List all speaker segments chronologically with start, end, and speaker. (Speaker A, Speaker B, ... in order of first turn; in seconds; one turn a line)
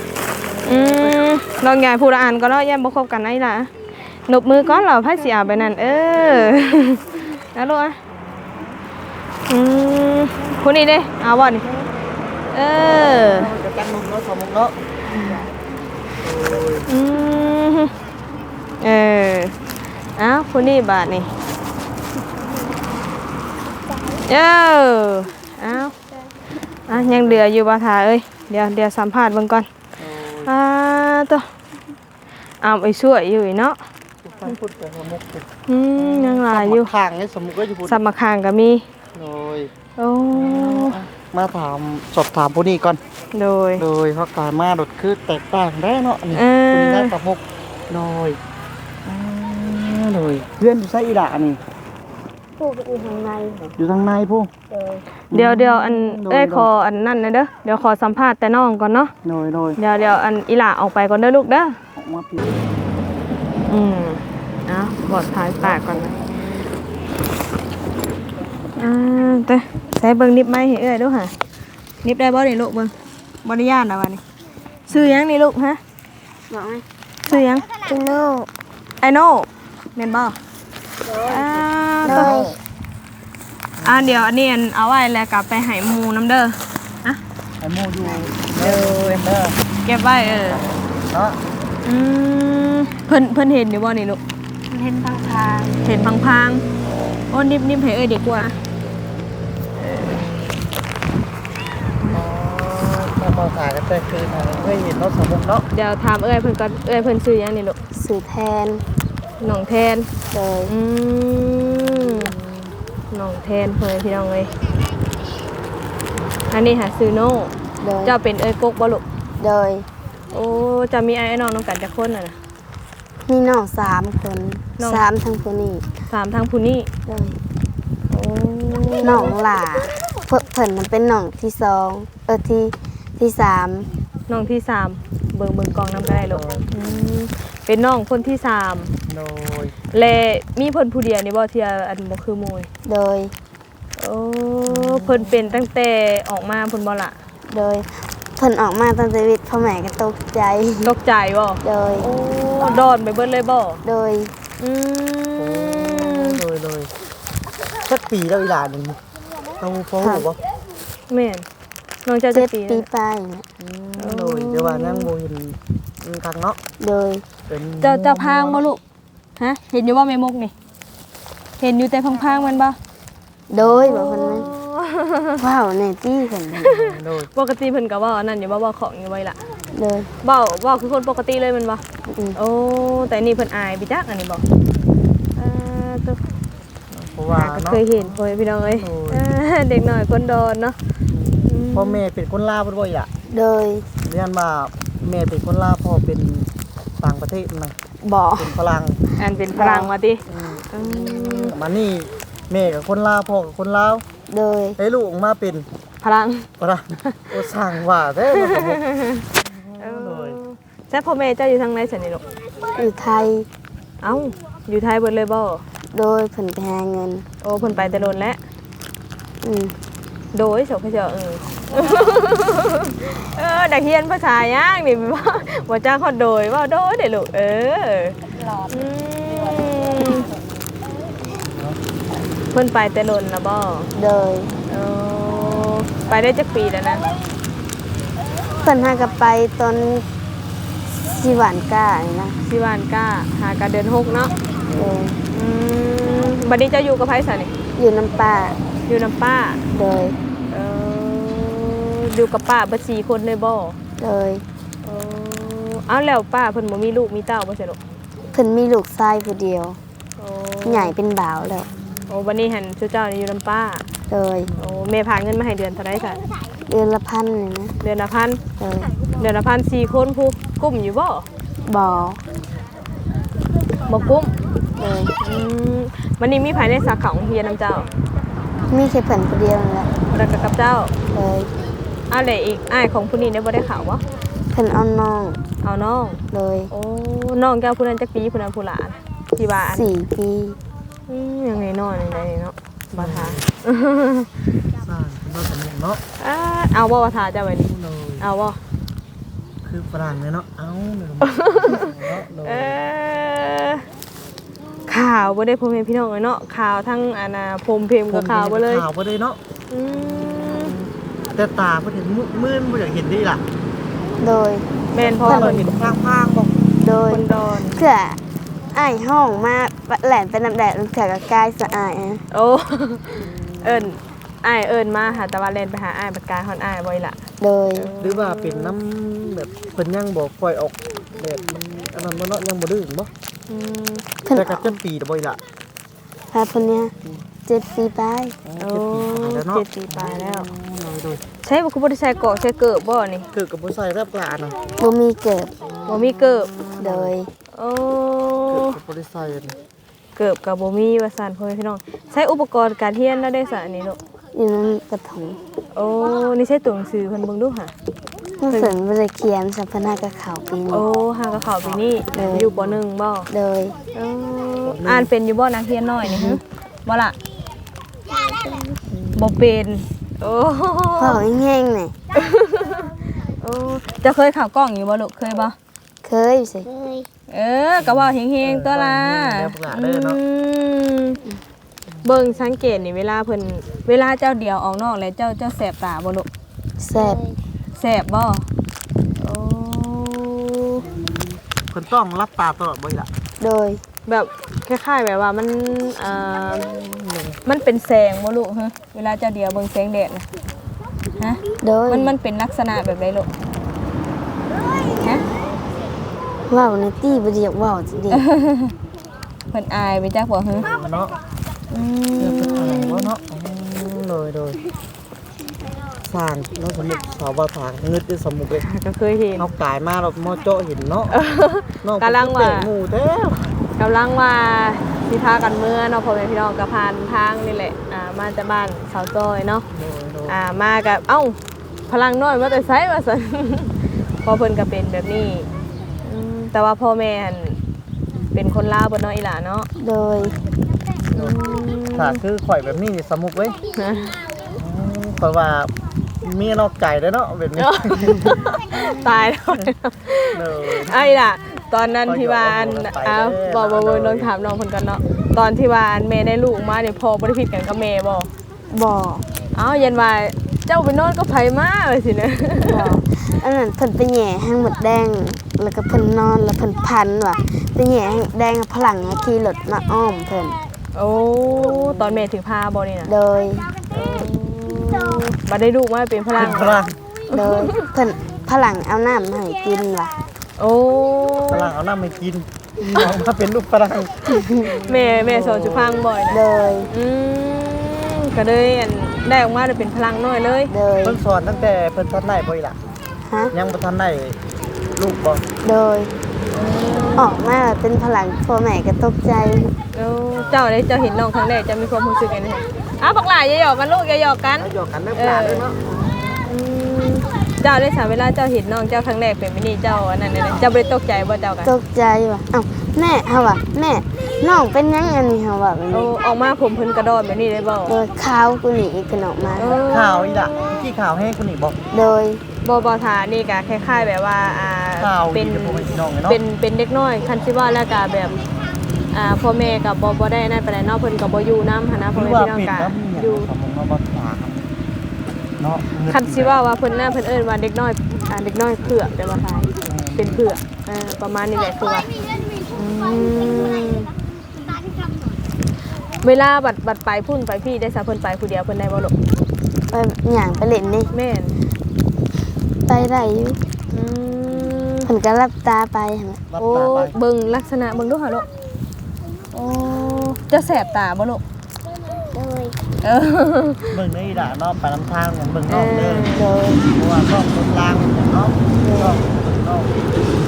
Speaker A: 0.6-1.1
Speaker B: 0.7-3.7
Speaker B: 4.3-8.0
Speaker B: 9.5-11.6
Speaker B: 12.5-13.5
Speaker A: 12.8-14.8
Speaker C: 15.1-15.5
Speaker A: 16.2-16.9
Speaker B: 16.9-17.9
Speaker B: 18.8-19.6
Speaker B: 20.2-21.3
Speaker B: 24.2-25.9
Speaker B: 26.9-29.7
Speaker A: 26.9-27.4
Speaker A: 30.0-30.5
Speaker B: 30.5-31.5
Speaker B: 32.6-33.8
Speaker A: 34.2-35.5
Speaker B: 35.7-36.9
Speaker A: 36.0-38.0
Speaker B: 37.9-38.9
Speaker A: 39.1-39.7
Speaker B: 40.0-41.0
Speaker A: 40.3-43.0
Speaker B: 43.3-43.8
Speaker A: 43.8-48.4
Speaker B: 46.3-47.1
Speaker A: 49.1-51.6
Speaker C: 52.6-53.8
Speaker A: 53.8-54.5
Speaker C: 54.7-55.0
Speaker A: 55.3-56.7
Speaker B: 55.3-59.1
Speaker A: 59.2-59.8
Speaker B: 59.8-61.8
Speaker A: 62.0-62.5
Speaker B: 63.7-66.2
Speaker A: 65.4-66.7
Speaker B: 68.8-71.3
Speaker B: 72.0-74.2
Speaker B: 74.9-75.8
Speaker A: 74.9-75.2
Speaker C: 76.5-76.8
Speaker B: 77.3-77.7
Speaker D: 77.8-78.5
Speaker B: 79.0-80.4
Speaker C: 81.1-81.4
Speaker B: 81.2-82.3
Speaker C: 82.0-82.5
Speaker D: 82.0-82.6
Speaker A: 83.8-84.2
Speaker B: 83.8-87.2
Speaker A: 87.6-89.6
Speaker B: 88.6-89.2
Speaker B: 89.9-90.6
Speaker A: 90.5-91.4
Speaker B: 91.8-94.2
Speaker B: 95.2-96.7
Speaker B: 97.3-98.6
Speaker B: 99.8-100.1
Speaker A: 100.0-100.7
Speaker A: 102.1-105.7
Speaker B: 105.7-107.8
Speaker C: 107.9-108.8
Speaker B: 109.4-110.1
Speaker C: 110.3-110.7
Speaker B: 110.7-112.3
Speaker A: 111.4-112.7
Speaker B: 113.1-114.5
Speaker B: 116.5-117.5
Speaker C: 117.8-118.1
Speaker B: 118.0-119.0
Speaker C: 119.4-119.9
Speaker B: 120.3-122.4
Speaker C: 123.2-125.8
Speaker B: 124.8-125.0
Speaker B: 126.1-126.9
Speaker C: 127.1-127.4
Speaker B: 128.1-129.4
Speaker C: 129.0-133.9
Speaker B: 134.3-138.9
Speaker A: 135.7-136.7
Speaker A: 139.1-139.8
Speaker B: 139.9-142.7
Speaker C: 142.8-143.3
Speaker B: 144.0-147.2
Speaker A: 144.7-145.6
Speaker C: 147.5-150.9
Speaker B: 150.8-153.8
Speaker C: 151.6-152.1
Speaker C: 153.8-154.3
Speaker B: 154.6-156.4
Speaker A: 155.4-156.9
Speaker A: 157.8-159.0
Speaker A: 159.6-160.4
Speaker C: 160.0-160.3
Speaker B: 161.1-161.4
Speaker B: 162.1-162.8
Speaker C: 162.3-163.5
Speaker A: 163.6-166.6
Speaker B: 164.0-165.1
Speaker C: 166.8-167.2
Speaker A: 167.5-168.7
Speaker B: 167.8-168.8
Speaker B: 169.4-170.5
Speaker B: 171.6-172.8
Speaker C: 173.5-174.5
Speaker A: 173.6-173.9
Speaker B: 173.8-175.4
Speaker C: 175.4-176.7
Speaker B: 176.6-179.4
Speaker A: 176.7-177.3
Speaker C: 179.7-180.1
Speaker B: 180.2-181.8
Speaker C: 182.1-182.4
Speaker B: 182.3-184.4
Speaker B: 185.4-186.2
Speaker A: 186.9-189.3
Speaker B: 187.3-190.8
Speaker A: 191.1-193.1
Speaker B: 191.5-192.0
Speaker C: 193.3-193.9
Speaker A: 194.0-196.5
Speaker A: 197.0-197.7
Speaker C: 198.0-198.5
Speaker A: 198.4-199.0
Speaker B: 199.2-201.6
Speaker C: 199.5-199.9
Speaker A: 200.3-200.7
Speaker C: 200.8-201.5
Speaker A: 201.5-204.0
Speaker C: 204.3-204.8
Speaker A: 204.8-205.7
Speaker B: 206.0-206.5
Speaker A: 206.6-208.8
Speaker B: 208.3-209.3
Speaker A: 209.4-210.4
Speaker B: 209.8-212.2
Speaker C: 212.8-213.5
Speaker B: 214.0-215.6
Speaker C: 215.9-217.3
Speaker B: 217.4-218.4
Speaker A: 217.6-218.3
Speaker C: 219.4-219.7
Speaker B: 220.3-228.2
Speaker B: 228.7-230.3
Speaker A: 231.5-231.8
Speaker B: 232.5-233.9
Speaker C: 233.9-234.5
Speaker B: 234.7-237.0
Speaker C: 238.6-240.1
Speaker C: 241.1-242.4
Speaker B: 242.4-244.3
Speaker C: 244.7-245.2
Speaker B: 245.3-247.5
Speaker C: 247.8-248.6
Speaker B: 248.9-249.6
Speaker C: 249.7-250.2
Speaker B: 250.5-253.8
Speaker C: 254.0-254.4
Speaker B: 254.8-257.8
Speaker C: 258.3-259.8
Speaker B: 260.2-260.9
Speaker C: 260.6-261.7
Speaker B: 262.1-263.8
Speaker C: 264.1-264.5
Speaker A: 264.5-264.9
Speaker B: 264.6-266.2
Speaker C: 266.7-267.7
Speaker B: 267.8-268.4
Speaker C: 268.6-268.9
Speaker B: 269.2-271.3
Speaker C: 271.6-272.2
Speaker B: 273.9-274.3
Speaker C: 274.8-275.1
Speaker B: 275.2-277.9
Speaker C: 278.7-279.9
Speaker B: 280.1-280.9
Speaker C: 281.1-281.5
Speaker B: 282.1-284.0
Speaker C: 284.5-285.4
Speaker B: 285.6-289.9
Speaker C: 286.3-286.7
Speaker C: 289.7-290.6
Speaker B: 291.1-294.3
Speaker A: 292.9-293.4
Speaker A: 294.8-296.0
Speaker B: 296.2-298.6
Speaker A: 297.6-298.2
Speaker A: 299.6-302.8
Speaker B: 301.2-301.9
Speaker B: 302.4-303.8
Speaker B: 304.9-308.9
Speaker A: 308.1-309.4
Speaker B: 309.7-310.8
Speaker A: 310.3-313.4
Speaker C: 314.2-314.7
Speaker B: 314.9-315.9
Speaker A: 314.9-316.6
Speaker C: 315.2-315.6
Speaker C: 316.8-318.2
Speaker B: 317.1-317.8
Speaker C: 318.7-322.2
Speaker B: 322.3-327.2
Speaker A: 323.2-323.9
Speaker C: 327.4-327.9
Speaker B: 327.8-328.8
Speaker A: 328.0-333.1
Speaker B: 333.5-334.1
Speaker C: 334.2-334.8
Speaker A: 334.3-335.4
Speaker C: 336.3-336.9
Speaker C: 337.5-338.4
Speaker A: 338.4-341.2
Speaker B: 338.6-340.5
Speaker B: 341.4-343.3
Speaker A: 343.3-344.6
Speaker C: 344.8-345.5
Speaker A: 345.6-347.1
Speaker B: 345.9-346.5
Speaker C: 346.8-347.3
Speaker B: 347.6-348.8
Speaker A: 348.5-349.6
Speaker B: 350.2-354.0
Speaker C: 354.3-355.4
Speaker B: 355.7-357.7
Speaker C: 358.4-360.9
Speaker B: 358.5-358.8
Speaker B: 360.7-363.3
Speaker A: 361.4-362.8
Speaker C: 362.1-362.5
Speaker C: 363.3-363.8
Speaker B: 363.9-367.2
Speaker A: 364.7-365.1
Speaker C: 366.0-366.4
Speaker D: 368.1-368.8
Speaker A: 368.9-369.3
Speaker B: 369.1-371.2
Speaker C: 371.0-371.9
Speaker B: 372.1-375.6
Speaker C: 376.0-376.7
Speaker D: 376.7-377.1
Speaker B: 377.3-381.2
Speaker A: 377.8-380.2
Speaker B: 382.0-386.3
Speaker C: 386.8-387.2
Speaker B: 387.8-388.5
Speaker B: 389.2-390.9
Speaker A: 391.7-393.1
Speaker C: 393.4-393.8
Speaker B: 394.1-396.7
Speaker A: 396.8-397.4
Speaker B: 397.5-400.3
Speaker B: 401.2-403.3
Speaker C: 401.6-402.1
Speaker B: 404.9-405.2
Speaker C: 406.5-408.3
Speaker B: 408.1-408.7
Speaker B: 409.5-410.7
Speaker A: 410.5-411.2
Speaker B: 411.7-413.1
Speaker A: 412.2-414.6
Speaker A: 416.1-418.6
Speaker B: 418.6-419.5
Speaker A: 419.4-421.1
Speaker B: 421.1-422.7
Speaker A: 421.8-423.6
Speaker B: 423.8-429.7
Speaker A: 429.7-430.4
Speaker B: 430.3-431.4
Speaker B: 431.9-435.5
Speaker B: 436.0-437.6
Speaker B: 438.3-439.7
Speaker C: 439.8-440.3
Speaker A: 441.1-441.4
Speaker B: 441.1-442.2
Speaker A: 441.9-443.6
Speaker B: 443.8-444.2
Speaker A: 444.6-445.7
Speaker A: 446.2-448.5
Speaker B: 447.6-458.3
Speaker A: 450.3-451.2
Speaker A: 452.1-454.3
Speaker C: 458.7-459.3
Speaker B: 459.5-462.9
Speaker C: 462.7-470.6
Speaker B: 470.9-473.1
Speaker C: 473.1-473.7
Speaker B: 473.9-477.9
Speaker A: 476.4-477.0
Speaker C: 477.3-480.1
Speaker A: 478.0-478.5
Speaker B: 480.6-481.7
Speaker A: 481.5-486.0
Speaker C: 484.3-484.7
Speaker B: 484.9-490.7
Speaker C: 486.3-486.9
Speaker C: 490.7-491.2
Speaker A: 491.0-492.8
Speaker A: 493.5-494.4
Speaker A: 495.0-495.4
Speaker C: 495.6-496.1
Speaker B: 496.5-497.3
Speaker C: 497.2-499.7
Speaker B: 499.9-505.7
Speaker A: 504.6-505.8
Speaker B: 506.3-511.7
Speaker C: 511.6-516.1
Speaker B: 515.9-517.9
Speaker C: 517.9-519.8
Speaker B: 519.6-520.8
Speaker A: 519.9-521.8
Speaker C: 521.9-522.4
Speaker B: 522.6-528.4
Speaker A: 525.0-526.4
Speaker B: 529.1-533.5
Speaker A: 532.1-534.7
Speaker A: 535.6-536.6
Speaker B: 536.1-542.1
Speaker A: 539.8-540.4
Speaker B: 542.7-544.1
Speaker B: 546.2-549.1
Speaker C: 549.9-551.1
Speaker B: 551.1-551.6
Speaker C: 552.8-553.6
Speaker B: 553.9-555.1
Speaker A: 554.5-555.0
Speaker C: 555.0-556.4
Speaker A: 556.5-557.2
Speaker B: 556.6-558.5
Speaker B: 559.5-561.4
Speaker D: 562.3-562.8
Speaker B: 563.0-564.0
Speaker A: 563.9-570.0
Speaker B: 565.7-566.4
Speaker C: 566.3-566.8
Speaker C: 568.8-569.2